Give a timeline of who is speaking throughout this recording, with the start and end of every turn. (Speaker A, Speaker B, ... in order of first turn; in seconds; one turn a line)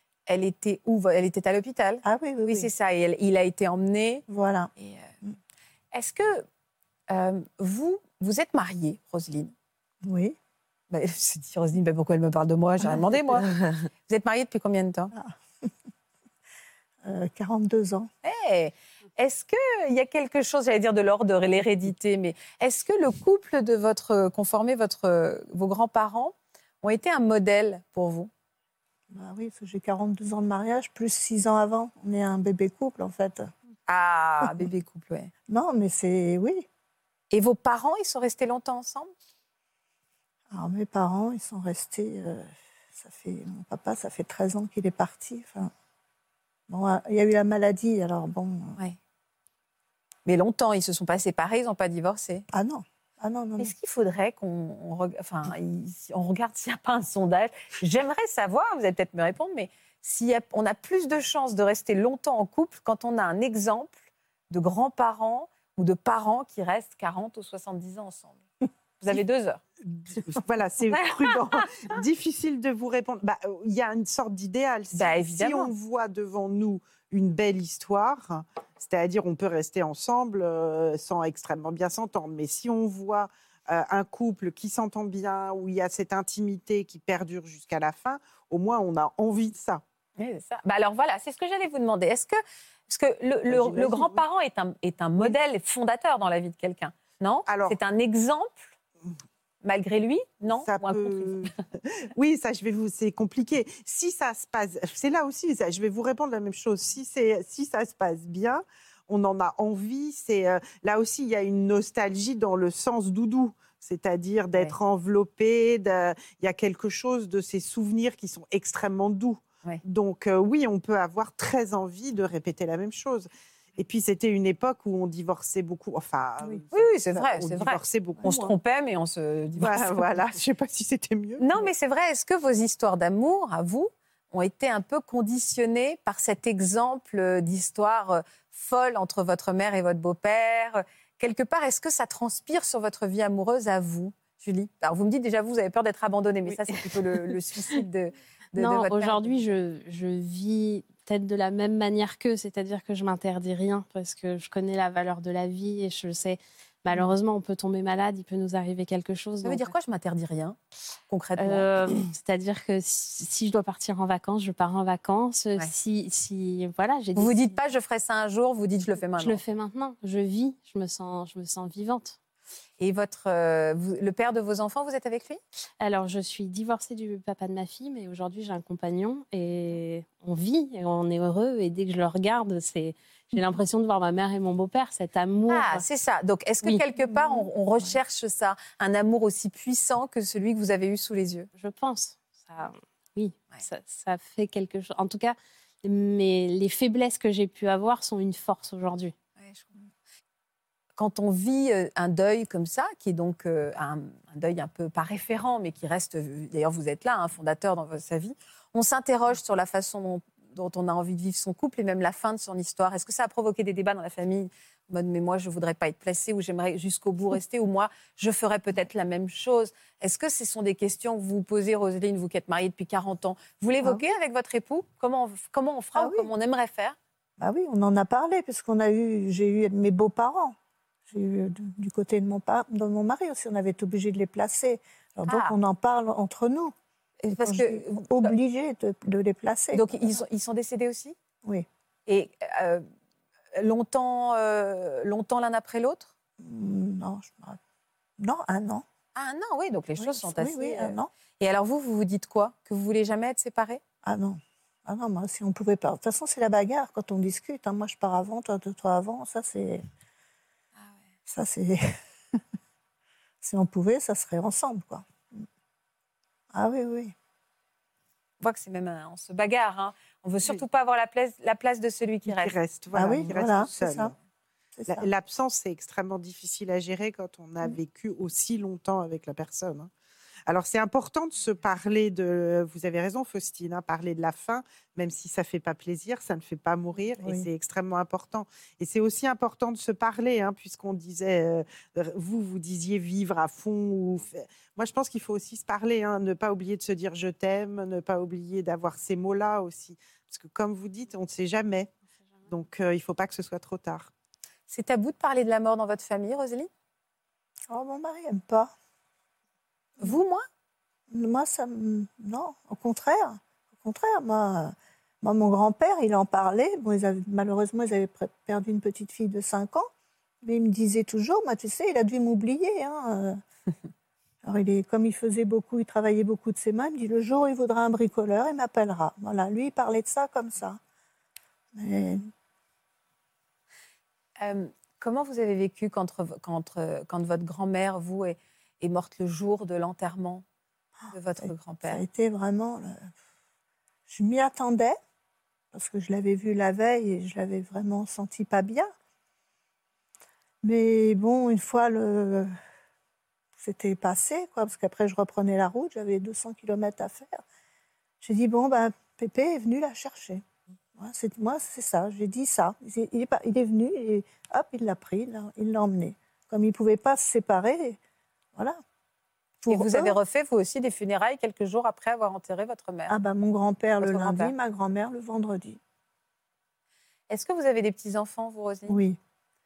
Speaker A: 0.3-4.2
Speaker B: 2.0-2.7
Speaker B: 4.3-4.7
Speaker A: 4.8-5.1
Speaker A: 5.9-6.4
Speaker A: 7.1-9.5
Speaker B: 10.0-10.3
Speaker A: 10.9-13.5
Speaker A: 14.1-15.1
Speaker B: 17.0-18.1
Speaker A: 18.2-28.3
Speaker B: 29.1-33.5
Speaker A: 33.9-35.3
Speaker B: 35.5-36.6
Speaker A: 37.3-39.1
Speaker B: 40.5-45.7
Speaker B: 46.7-48.8
Speaker A: 50.2-52.5
Speaker B: 52.5-53.7
Speaker A: 53.6-64.0
Speaker A: 64.5-68.4
Speaker A: 69.0-69.6
Speaker C: 69.8-89.8
Speaker A: 74.9-75.7
Speaker A: 90.2-98.7
Speaker C: 93.5-94.2
Speaker C: 97.5-97.8
Speaker A: 99.6-101.5
Speaker C: 100.5-128.5
Speaker A: 126.7-130.1
Speaker C: 129.6-131.7
Speaker A: 131.4-149.5
Speaker D: 148.6-159.7
Speaker A: 159.4-160.6
Speaker A: 161.1-161.8
Speaker D: 161.4-167.6
Speaker A: 167.2-169.4
Speaker D: 169.2-172.2
Speaker A: 172.8-175.4
Speaker D: 175.8-185.8
Speaker A: 185.5-191.5
Speaker D: 191.6-199.1
Speaker A: 199.4-199.7
Speaker A: 201.0-227.0
Speaker B: 225.9-226.3
Speaker B: 227.4-230.6
Speaker B: 231.1-236.7
Speaker A: 235.3-235.6
Speaker A: 237.3-238.3
Speaker B: 237.3-240.1
Speaker A: 239.7-241.2
Speaker A: 242.1-242.8
Speaker A: 243.5-246.1
Speaker B: 246.4-247.6
Speaker B: 248.2-248.8
Speaker A: 249.1-253.8
Speaker B: 250.0-251.1
Speaker B: 254.0-259.9
Speaker B: 261.3-262.4
Speaker B: 263.4-265.4
Speaker B: 266.5-267.1
Speaker A: 268.4-273.4
Speaker C: 272.2-274.1
Speaker B: 272.9-274.1
Speaker B: 274.8-275.1
Speaker C: 274.9-279.9
Speaker C: 280.5-301.9
Speaker B: 287.2-287.5
Speaker C: 302.5-304.1
Speaker A: 304.7-306.7
Speaker B: 307.7-308.7
Speaker A: 310.0-310.4
Speaker B: 311.1-319.9
Speaker B: 320.4-323.4
Speaker B: 324.4-330.8
Speaker B: 331.7-332.3
Speaker A: 334.4-340.4
Speaker B: 341.0-343.1
Speaker A: 341.1-342.0
Speaker B: 344.1-345.0
Speaker B: 345.7-348.9
Speaker B: 350.6-352.5
Speaker B: 353.6-357.4
Speaker B: 358.2-360.4
Speaker B: 361.0-368.0
Speaker B: 369.6-370.2
Speaker A: 369.6-373.1
Speaker B: 373.1-375.8
Speaker A: 374.0-374.5
Speaker A: 377.3-379.0
Speaker B: 378.9-379.2